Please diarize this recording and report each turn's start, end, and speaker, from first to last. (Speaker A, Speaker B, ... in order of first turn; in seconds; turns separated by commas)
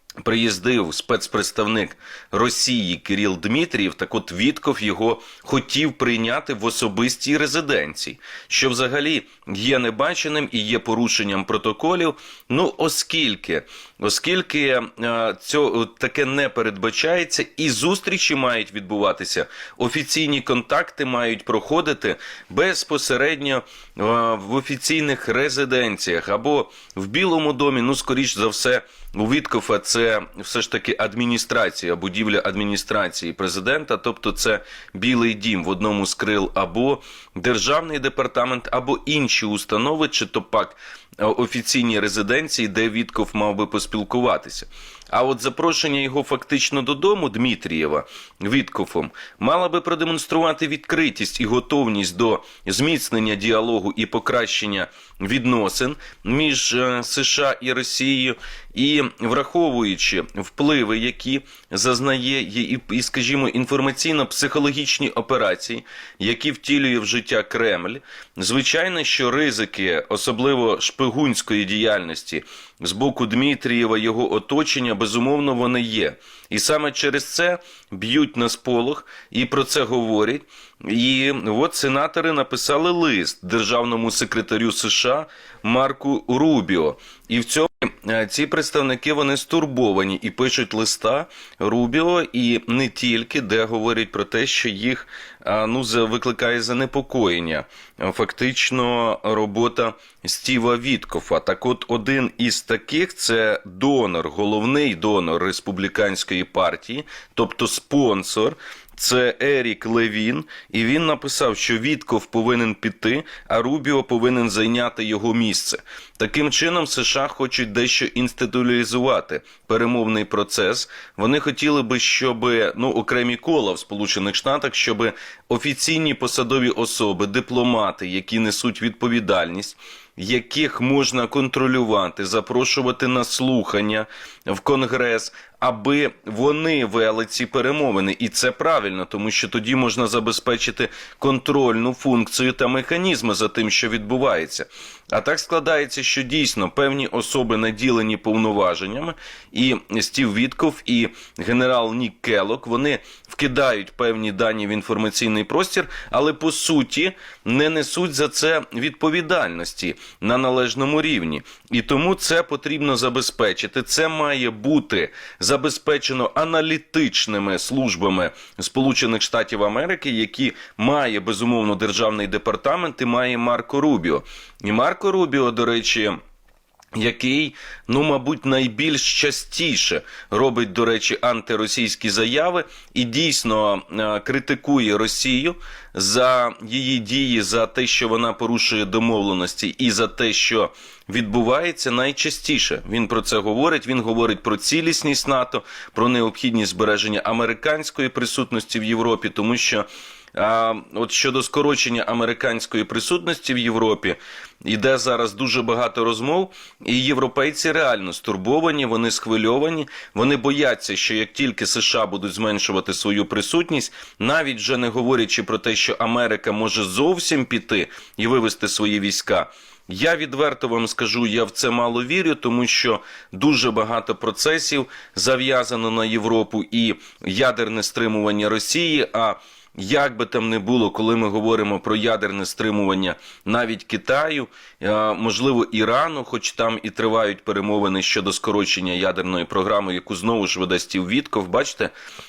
Speaker A: 0.2-176.2, Speaker A: 176.9-241.9